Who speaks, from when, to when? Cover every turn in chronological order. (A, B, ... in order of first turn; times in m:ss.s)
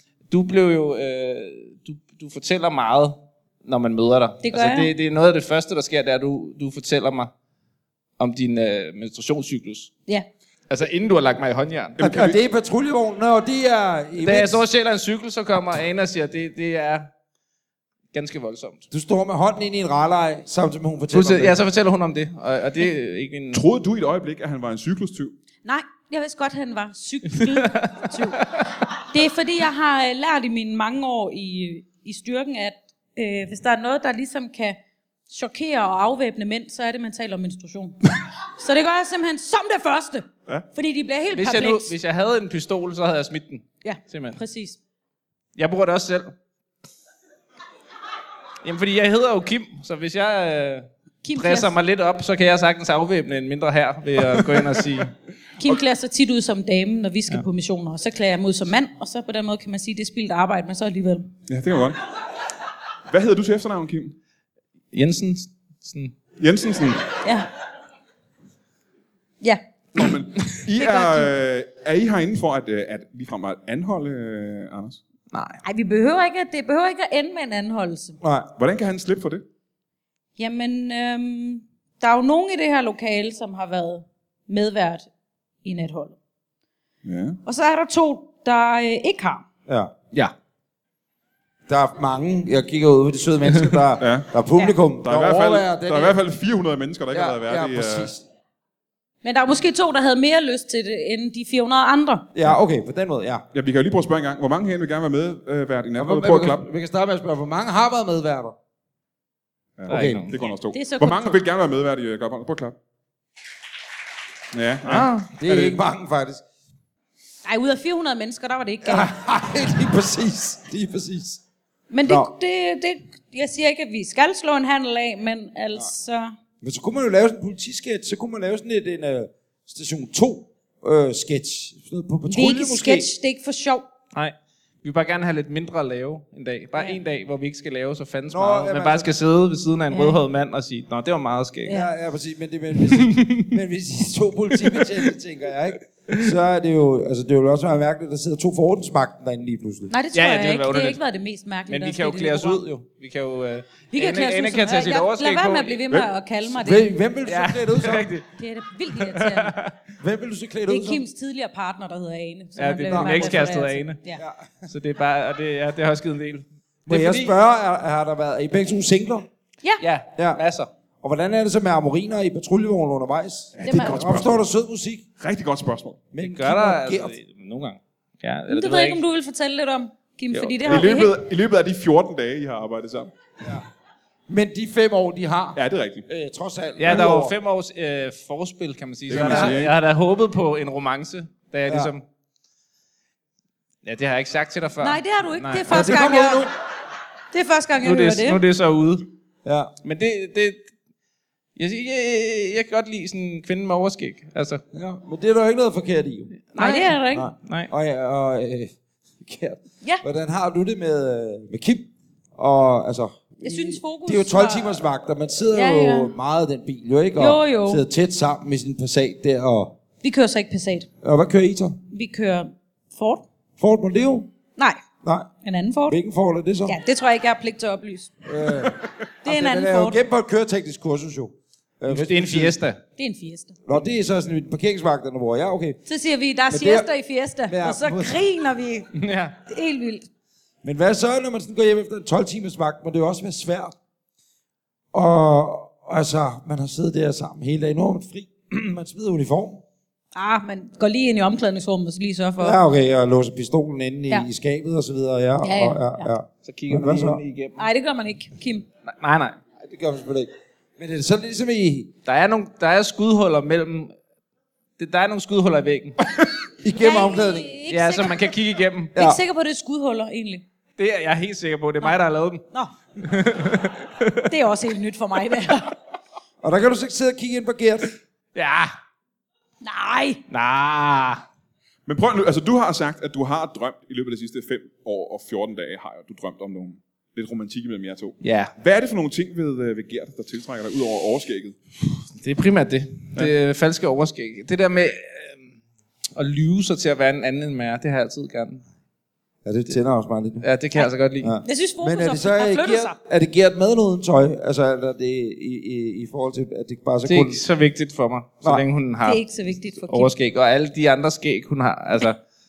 0:00.3-0:07.3 A
0:04.4-0:04.9 B
0:08.2-0:09.9 A
0:10.7-0:12.2 A
0:12.0-0:14.6 C
0:12.0-0:12.3 D
0:14.2-0:17.1 A
0:18.1-0:18.8 A
0:18.9-0:21.6 C
0:21.1-0:23.6 A
0:23.5-0:25.3 D
0:25.6-0:41.9 B
0:27.4-0:28.6 A
0:41.3-0:44.4 A
0:43.8-0:44.8 B
0:45.6-0:46.3 A
0:48.6-0:55.1 A
0:51.2-0:51.7 B
0:55.6-1:01.3 B
1:01.5-1:02.0 D
1:03.1-1:04.2 D
1:04.9-1:06.1 A
1:06.4-1:07.0 D
1:09.9-1:15.0 D
1:10.8-1:11.3 B
1:15.3-1:15.6 A
1:15.6-1:18.2 B
1:18.2-1:18.5 C
1:18.5-1:19.4 D
1:20.4-1:25.0 B
1:25.6-1:26.2 B
1:27.0-1:27.4 D
1:27.4-1:29.4 B
1:29.7-1:29.9 C
1:31.7-1:36.2 C
1:34.0-1:34.3 D
1:35.0-1:38.1 D
1:37.1-1:38.2 C
1:39.2-1:42.3 B
1:42.3-1:43.4 C
1:43.5-1:46.6 D
1:46.0-1:48.5 C
1:49.8-1:52.8 D
1:49.9-1:50.3 C
1:49.9-1:50.4 A
1:50.7-1:51.4 B
1:54.5-1:55.8 D
1:54.8-1:55.3 A
1:55.4-1:56.4 C
1:57.4-1:59.1 B
1:58.8-2:01.4 C
2:01.9-2:06.3 B
2:02.0-2:02.3 C
2:06.6-2:13.1 C
2:12.3-2:13.9 B
2:14.1-2:21.7 A
2:16.7-2:17.0 B
2:18.3-2:19.1 C
2:19.9-2:20.2 B
2:21.7-2:29.9 C
2:22.9-2:23.5 A
2:24.7-2:25.0 A
2:29.9-2:32.6 B
2:30.1-2:31.0 A
2:31.7-2:36.0 A
2:33.9-2:36.9 B
2:36.5-2:38.1 C
2:37.2-2:38.3 A
2:38.3-2:39.6 B
2:38.9-2:39.7 A
2:40.0-2:41.0 C
2:40.7-2:44.2 B
2:42.6-2:44.0 A
2:42.9-2:43.5 C
2:44.2-2:44.7 C
2:44.7-2:47.3 A
2:46.9-2:49.3 C
2:49.8-2:50.7 A
2:50.2-2:50.4 C
2:51.0-2:55.0 C
2:53.6-2:54.4 D
2:53.6-2:54.0 B
2:55.2-2:56.0 D
2:56.1-2:57.1 C
2:56.2-2:59.0 A
2:58.5-3:01.2 B
3:00.3-3:01.0 A
3:00.6-3:03.1 D
3:03.4-3:03.6 C
3:04.3-3:07.4 C
3:05.5-3:06.0 D
3:06.8-3:12.0 A
3:09.1-3:09.7 D
3:09.1-3:09.6 C
3:13.8-3:16.0 A
3:14.8-3:16.5 B
3:15.7-3:16.5 C
3:17.3-3:18.4 B
3:17.8-3:19.1 A
3:19.4-3:19.7 C
3:19.8-3:20.6 A
3:21.6-3:24.6 A
3:24.7-3:26.3 C
3:26.5-3:27.7 A
3:26.6-3:27.3 B
3:27.1-3:39.7 C
3:33.4-3:34.8 B
3:35.5-3:36.1 B
3:37.2-3:37.8 B
3:40.0-3:40.9 B
3:41.0-3:41.8 C
3:41.9-3:43.2 B
3:43.6-3:44.3 C
3:44.6-3:44.8 B
3:45.0-3:45.3 C
3:45.4-3:46.0 B
3:45.9-3:46.8 C
3:46.6-3:48.2 B
3:48.2-3:52.6 C
3:49.2-3:50.0 B
3:51.9-3:52.8 A
3:53.0-3:53.6 B
3:53.7-3:55.8 C
3:55.8-3:58.9 B
3:56.5-3:56.9 C
3:57.5-3:58.2 C
3:59.0-3:59.4 A
3:59.4-4:00.0 B
4:00.6-4:03.7 C
4:04.9-4:09.6 C
4:10.1-4:12.6 B
4:12.4-4:17.2 C
4:15.4-4:16.1 B
4:16.4-4:17.6 A
4:17.6-4:18.7 B
4:18.8-4:19.4 A
4:19.6-4:21.9 C
4:22.0-4:23.9 A
4:24.8-4:26.0 A
4:26.6-4:27.5 C
4:26.8-4:28.2 B
4:27.7-4:29.0 A
4:29.0-4:30.4 B
4:30.8-4:32.4 A
4:33.0-4:34.3 A
4:34.3-4:35.7 B
4:36.4-4:37.9 C
4:38.3-4:38.7 A
4:39.6-4:40.2 B
4:40.3-4:41.2 A
4:41.8-4:51.6 D
4:48.2-4:48.5 A
4:52.1-4:55.5 A
4:56.2-4:58.6 A
4:59.4-5:00.4 C
5:00.4-5:01.3 A
5:01.2-5:07.4 C
5:01.4-5:02.9 B
5:07.0-5:09.2 A
5:09.0-5:10.1 B
5:09.9-5:12.2 A